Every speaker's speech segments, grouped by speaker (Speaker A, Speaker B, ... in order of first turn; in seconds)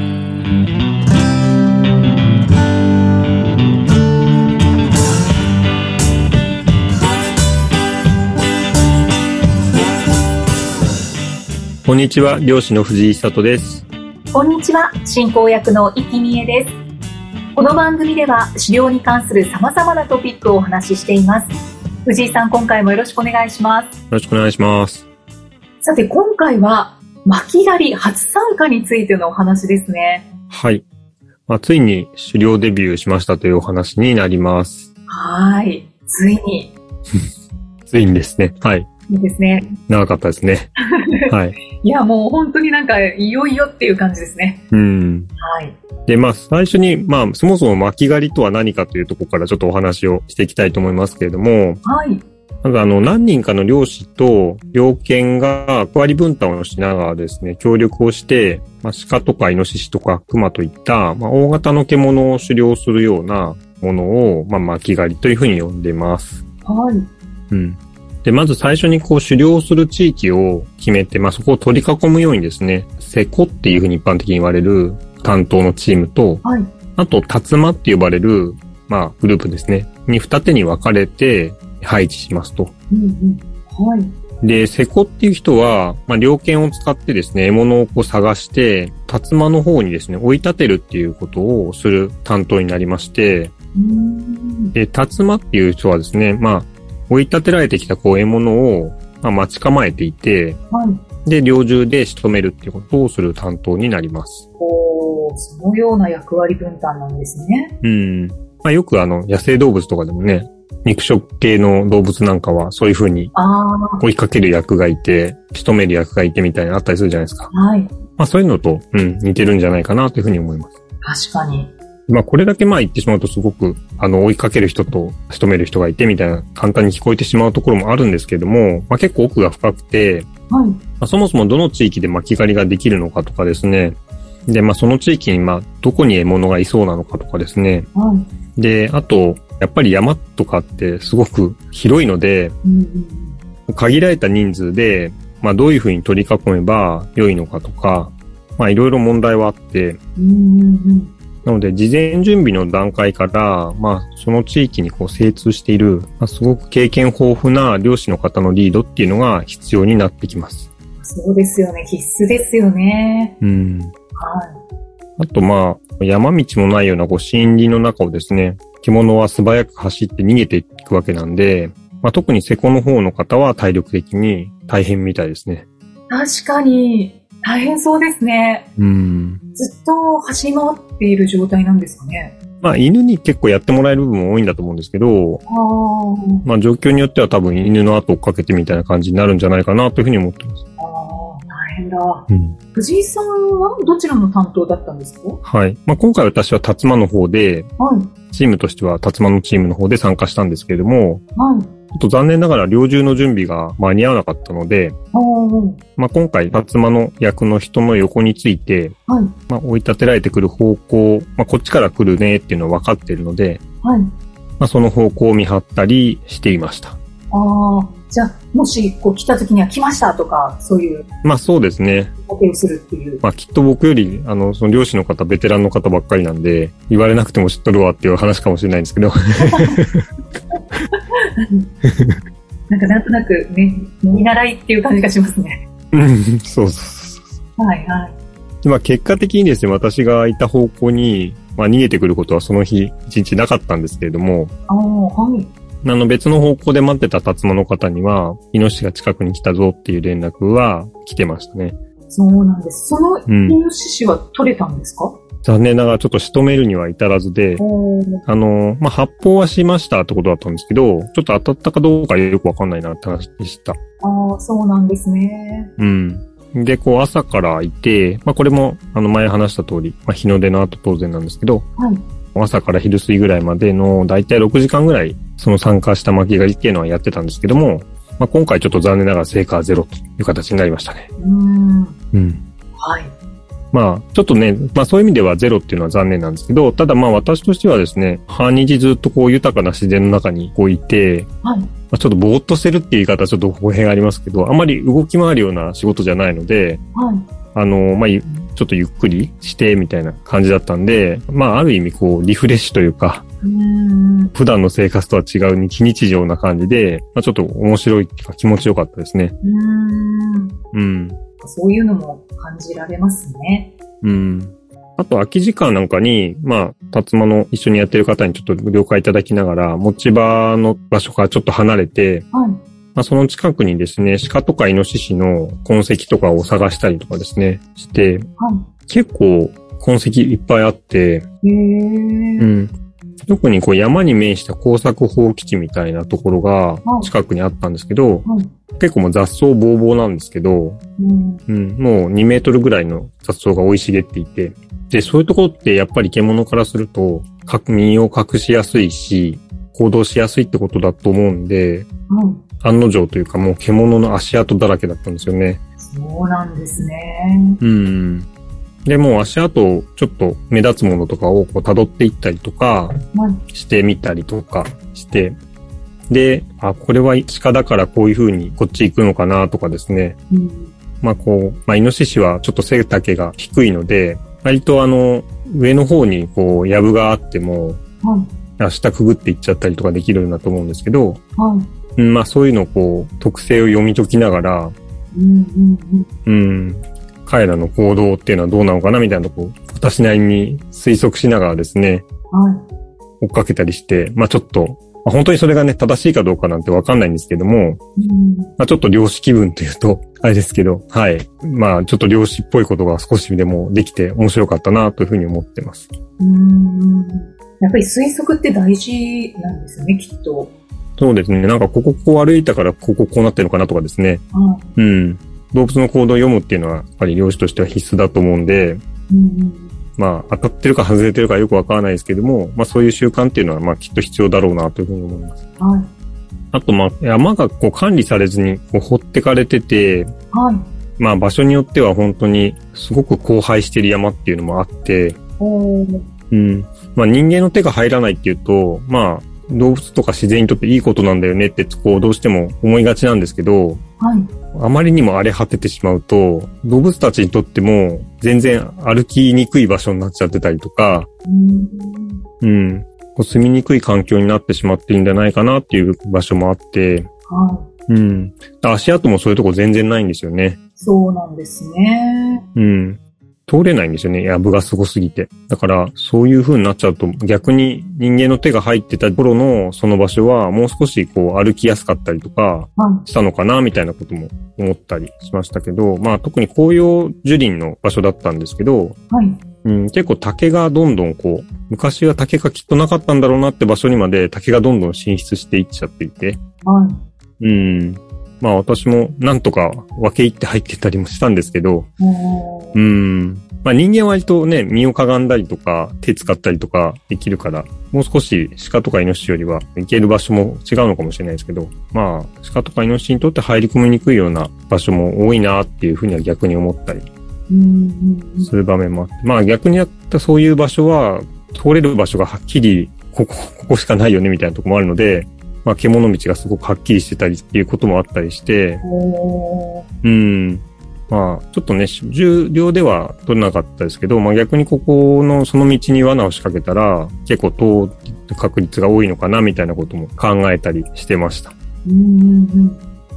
Speaker A: 11.8-13.8, 24.1-25.1, 30.5-30.8, 31.5-34.9, 37.9-38.9, 39.9-40.7, 41.3-41.6, 44.7-45.3, 46.1-51.8, 52.6-66.4, 67.5-76.4, 77.0-82.7, 84.4-93.5, 94.8-100.6, 101.3-104.5, 107.8-113.3, 114.0-117.5, 118.2-120.7, 122.1-130.3, 131.0-137.9, 138.6-142.6, 143.7-150.0, 151.4-160.7, 163.4-163.9, 165.2-175.7, 178.8-179.4, 182.6-185.4, 186.4-190.6, 192.3-192.6, 195.4-197.7, 198.3-201.2, 201.9-205.0, 206.0-209.0, 209.5-213.6, 214.6-217.0, 221.2-222.1, 223.2-230.1, 231.8-232.2, 235.9-237.2, 238.6-244.5, 245.8-251.8, 253.3-253.6, 255.4-257.6, 258.3-263.8, 265.8-271.7, 272.4-281.1, 282.1-282.4, 283.7-291.3, 291.9-296.8, 297.6-303.2, 304.4-309.4, 310.7-311.2, 314.0-322.3, 322.9-328.3, 328.9-331.3, 332.4-332.7, 333.3-338.3, 338.8-340.8, 341.5-351.9, 352.6-355.6, 357.6-358.3, 358.9-363.0, 363.5-365.4, 366.1-370.2, 371.0-377.8, 378.6-381.2, 382.0-384.7, 386.3-392.0, 393.2-397.8, 398.6-405.9, 411.0-414.2, 414.8-418.8, 420.0-425.4, 426.5-430.1, 431.0-435.2, 436.3-443.8, 444.5-451.1, 452.4-457.1, 457.9-460.6, 462.6-479.0, 479.6-486.4, 487.4-491.9, 492.8-507.1, 508.4-518.8, 520.0-531.5
Speaker B: 14.3-16.8, 17.5-21.5, 22.0-23.9, 25.8-30.3, 35.1-36.7, 39.1-39.8, 41.8-44.6, 45.4-45.8, 51.9-52.2, 66.7-67.1, 76.4-76.7, 82.9-84.1, 93.8-94.8, 100.7-101.0, 104.6-107.7, 113.3-114.0, 117.5-117.9, 121.0-121.7, 130.5-130.8, 137.9-138.2, 142.7-143.4, 150.2-151.1, 161.0-163.3, 164.2-164.6, 176.1-178.7, 179.6-182.3, 185.5-186.4, 190.8-195.4, 197.8-198.1, 201.4-201.7, 205.1-205.8, 209.1-209.3, 213.8-214.1, 217.3-221.1, 222.2-223.2, 229.4-229.8, 230.6-231.7, 232.7-235.6, 237.6-238.2, 244.7-245.5, 252.1-255.2, 257.6-258.2, 264.0-265.7, 281.2-282.0, 282.8-283.1, 291.4-291.7, 296.9-297.3, 303.4-304.4, 309.4-310.6, 311.4-313.7, 322.3-322.6, 328.4-328.7, 331.4-332.5, 336.9-337.1, 338.2-338.5, 341.0-341.4, 352.1-352.4, 355.8-357.6, 363.1-363.4, 370.3-370.7, 378.0-378.3, 381.4-381.7, 385.1-386.1, 392.3-392.6, 398.0-398.5, 406.2-410.5, 414.3-414.7, 419.1-419.8, 425.6-425.9, 430.3-430.6, 435.4-436.1, 444.0-444.3, 451.3-452.2, 457.3-457.7, 460.8-462.4, 472.8-473.1, 479.1-479.4, 486.6-487.0, 492.0-492.8, 507.5-508.5, 518.8-519.9, 531.9-532.8